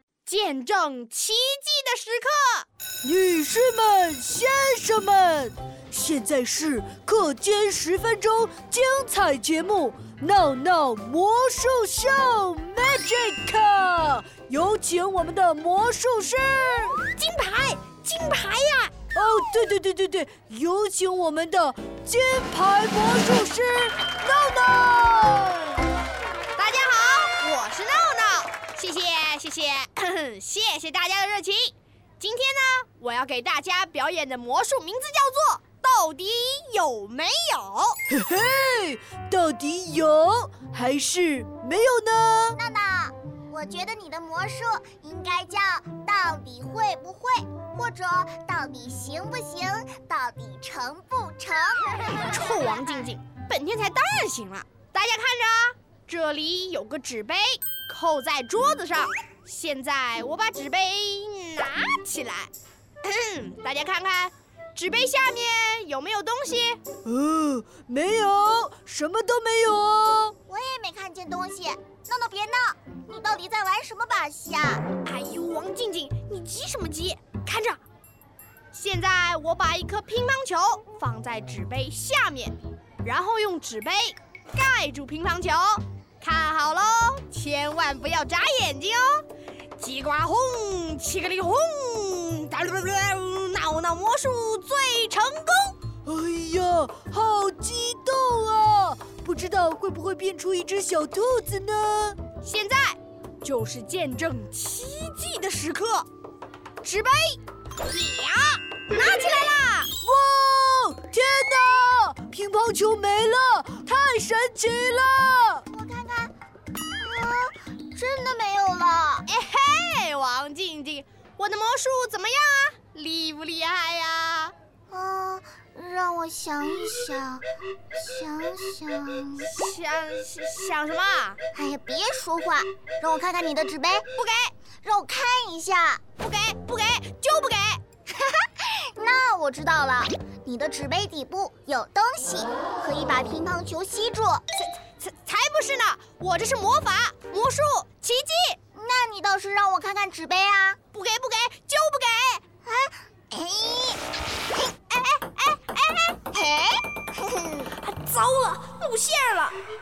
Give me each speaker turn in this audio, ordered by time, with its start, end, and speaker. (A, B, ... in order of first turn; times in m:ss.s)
0:00.2-0:02.6 A
0:03.0-0:17.0 B
0:17.1-0:19.0 A
0:19.1-0:25.7 B
0:26.6-0:38.0 A
0:38.1-0:42.6 B
0:42.5-0:52.1 C
0:52.2-1:02.5 A
1:03.0-1:06.8 A
1:07.0-1:10.3 B
1:10.4-1:14.8 C
1:15.0-1:17.8 A
1:18.7-1:29.2 A
1:29.8-1:35.8 A
1:36.0-1:42.2 B
1:42.4-1:46.1 A
1:46.8-1:49.9 A
1:50.0-1:55.6 B
1:55.7-1:56.3 C
1:57.0-1:59.2 C
1:59.3-2:04.5 A
2:04.9-2:09.5 C
2:09.4-2:11.4 A
2:11.5-2:14.0 C
2:14.1-2:14.5 A
2:14.8-2:16.0 C
2:16.2-2:17.8 A
2:18.1-2:24.4 C
2:24.6-2:28.6 A
2:28.7-2:30.8 C
2:30.9-2:32.4 A
2:32.6-2:34.0 C
2:34.9-2:36.2 A
2:36.3-2:37.7 C
2:37.8-2:39.6 A